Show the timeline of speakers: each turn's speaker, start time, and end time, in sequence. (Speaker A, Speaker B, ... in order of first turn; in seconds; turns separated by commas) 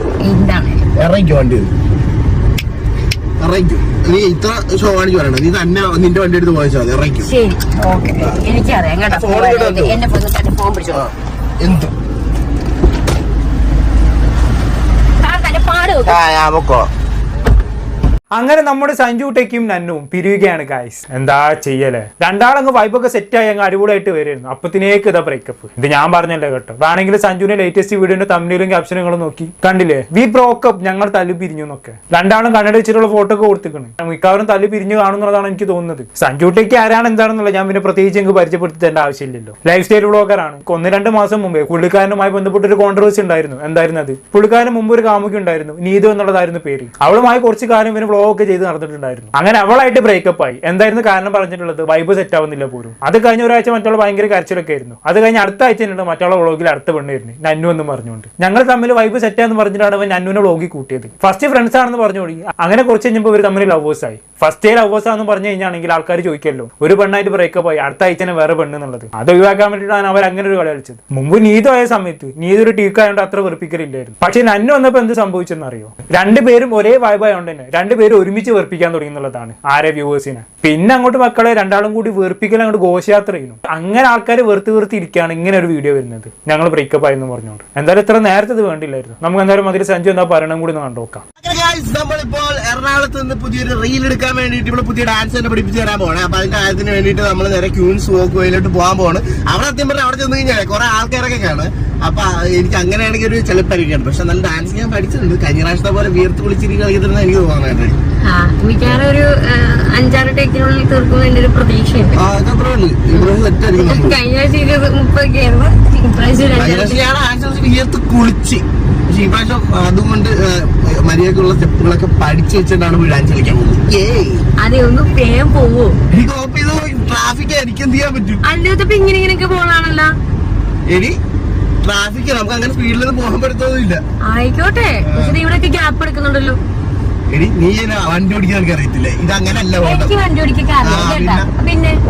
Speaker A: 0.2-0.8, Speaker B: 0.9-1.7, Speaker B: 3.4-7.3, Speaker A: 7.2-11.1, Speaker B: 9.1-10.0, Speaker B: 10.9-11.9, Speaker A: 15.2-16.2, Speaker B: 16.1-16.9, Speaker C: 18.4-91.2, Speaker B: 91.4-107.9, Speaker A: 108.2-112.2, Speaker B: 112.1-114.1, Speaker A: 113.1-117.0, Speaker B: 116.5-124.4, Speaker A: 124.6-126.0, Speaker B: 126.1-128.4, Speaker A: 128.4-130.1, Speaker B: 130.9-131.2, Speaker B: 131.8-134.0, Speaker A: 134.3-136.6, Speaker B: 135.0-135.3, Speaker B: 137.3-140.1, Speaker A: 139.8-142.0, Speaker B: 140.8-141.5